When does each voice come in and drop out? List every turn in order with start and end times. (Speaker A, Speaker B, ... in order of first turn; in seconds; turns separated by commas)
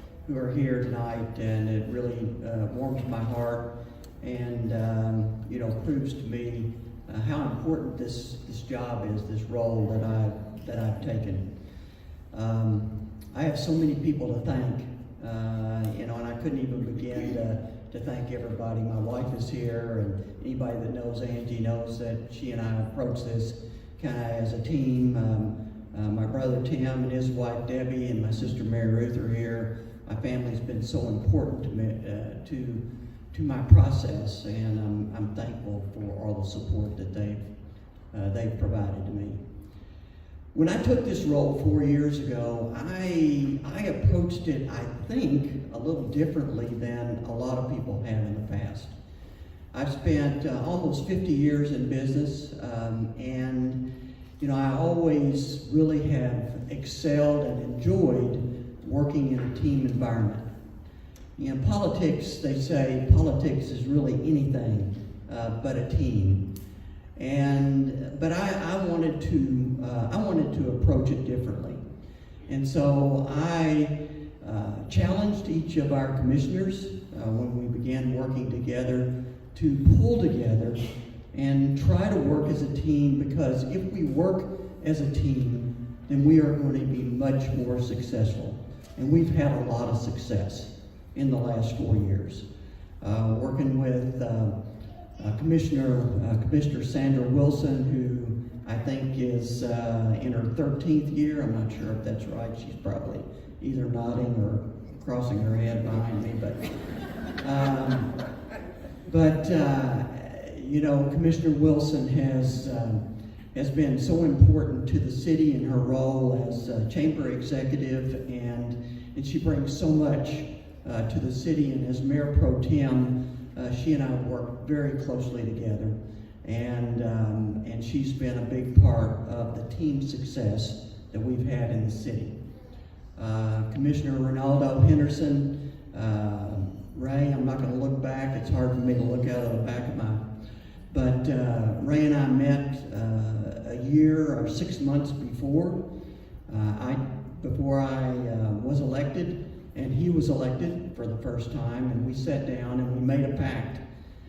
Speaker A: 0.2-3.7, Speaker A: 4.2-11.4, Speaker A: 12.3-37.5, Speaker A: 38.1-39.4, Speaker A: 40.5-49.0, Speaker A: 49.7-53.8, Speaker A: 54.4-60.4, Speaker A: 61.4-66.4, Speaker A: 67.2-71.8, Speaker A: 72.5-80.8, Speaker A: 81.3-92.5, Speaker A: 93.0-94.5, Speaker A: 95.2-106.6, Speaker A: 107.4-108.1, Speaker A: 109.1-113.0, Speaker A: 113.5-132.3, Speaker A: 133.2-140.2, Speaker A: 140.9-145.8, Speaker A: 146.5-153.8